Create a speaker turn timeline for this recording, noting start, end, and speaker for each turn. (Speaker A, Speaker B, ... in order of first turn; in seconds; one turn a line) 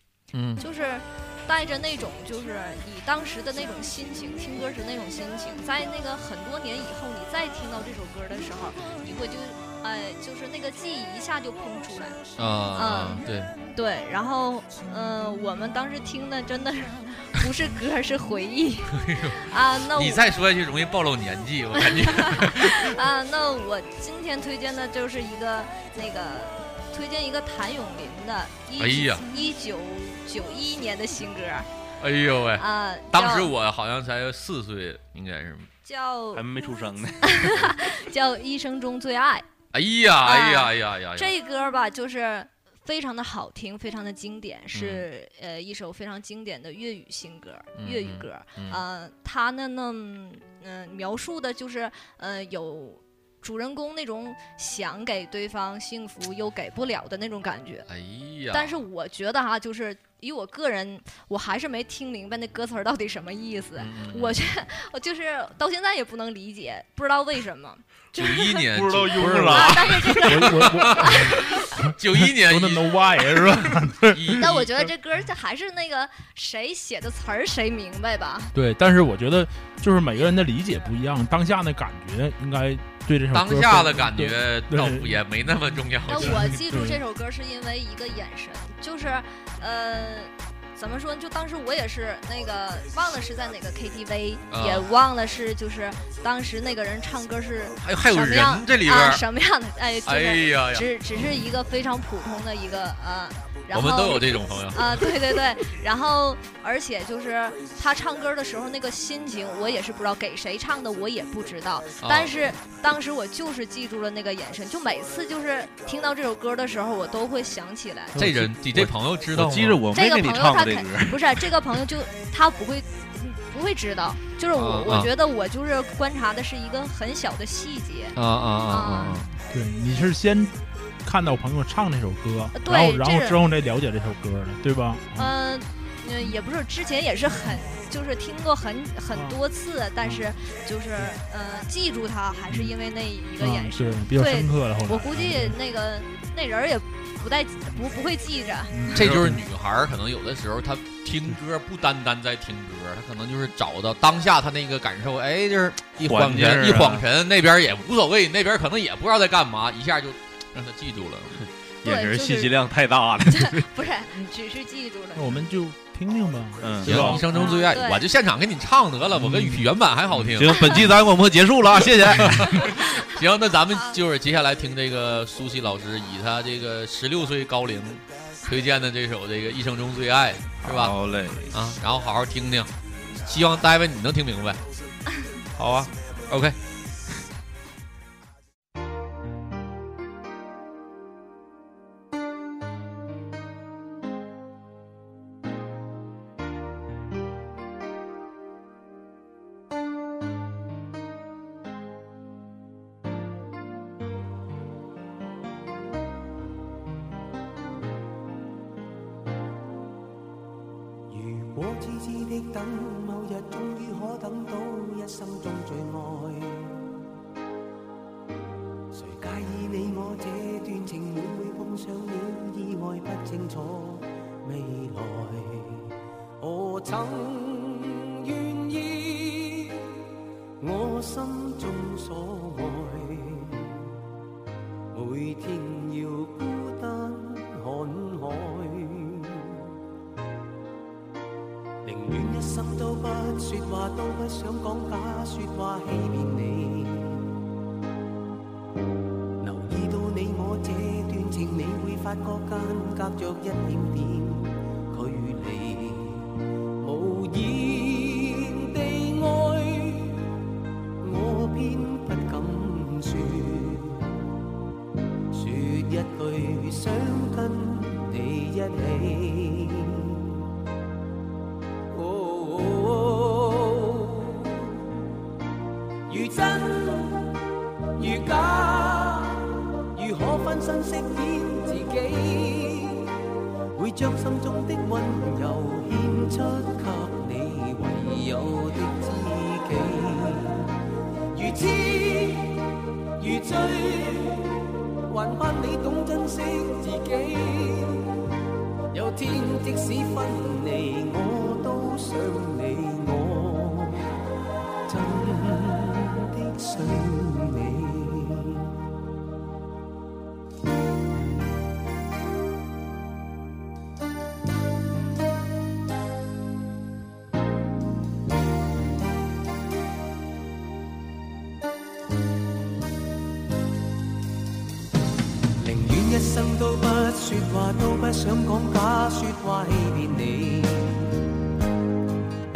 Speaker A: 0.3-0.6
Speaker B: 0.6-12.2
Speaker A: 12.4-13.5
Speaker B: 12.7-20.2
Speaker A: 18.9-19.4
Speaker A: 19.9-23.0
Speaker B: 21.8-31.7
Speaker A: 28.8-29.2
Speaker A: 32.0-35.7
Speaker B: 32.6-33.5
Speaker B: 35.8-36.4
Speaker C: 36.3-37.7
Speaker B: 37.2-39.4
Speaker A: 39.7-41.3
Speaker B: 40.2-57.9
Speaker A: 44.7-45.0
Speaker A: 47.8-48.8
Speaker A: 57.9-58.8
Speaker B: 58.5-68.6
Speaker A: 63.8-64.4
Speaker A: 68.1-74.9
Speaker C: 68.7-69.9
Speaker B: 69.4-71.6
Speaker D: 70.2-74.4
Speaker B: 74.4-78.5
Speaker D: 78.5-87.0
Speaker A: 83.3-86.5
Speaker B: 86.1-118.2
Speaker A: 94.5-94.9
Speaker A: 97.8-99.2
Speaker A: 100.0-100.9
Speaker A: 103.7-105.4
Speaker A: 112.0-112.4
Speaker A: 118.2-119.8
Speaker C: 118.2-121.5
Speaker B: 119.9-128.2
Speaker A: 124.5-125.1
Speaker A: 128.2-129.3
Speaker B: 128.7-129.2
Speaker D: 129.4-135.3
Speaker B: 132.6-133.4
Speaker B: 135.2-149.1
Speaker D: 139.1-139.4
Speaker D: 143.4-145.6
Speaker D: 148.7-149.4
Speaker A: 148.9-161.4
Speaker C: 156.1-157.0
Speaker C: 161.4-163.7
Speaker B: 161.8-162.6
Speaker B: 163.3-165.4
Speaker D: 165.1-167.5
Speaker C: 166.6-167.2
Speaker A: 166.8-170.9
Speaker B: 167.3-168.0
Speaker D: 169.2-169.7
Speaker C: 170.2-172.7
Speaker A: 172.1-180.9
Speaker B: 173.7-174.0
Speaker C: 180.6-181.5
Speaker A: 181.5-184.6
Speaker A: 185.6-186.6
Speaker E: 211.1-216.8
Speaker E: 218.9-230.0
Speaker E: 230.6-233.9
Speaker E: 234.9-239.6
Speaker E: 241.8-247.3
Speaker E: 249.4-260.3
Speaker E: 261.0-264.1
Speaker E: 265.3-270.4
Speaker E: 271.9-274.8
Speaker E: 276.1-277.4
Speaker E: 278.0-283.1
Speaker E: 283.7-290.8
Speaker E: 291.3-298.2
Speaker E: 298.9-304.1
Speaker E: 304.9-308.7
Speaker E: 325.6-331.2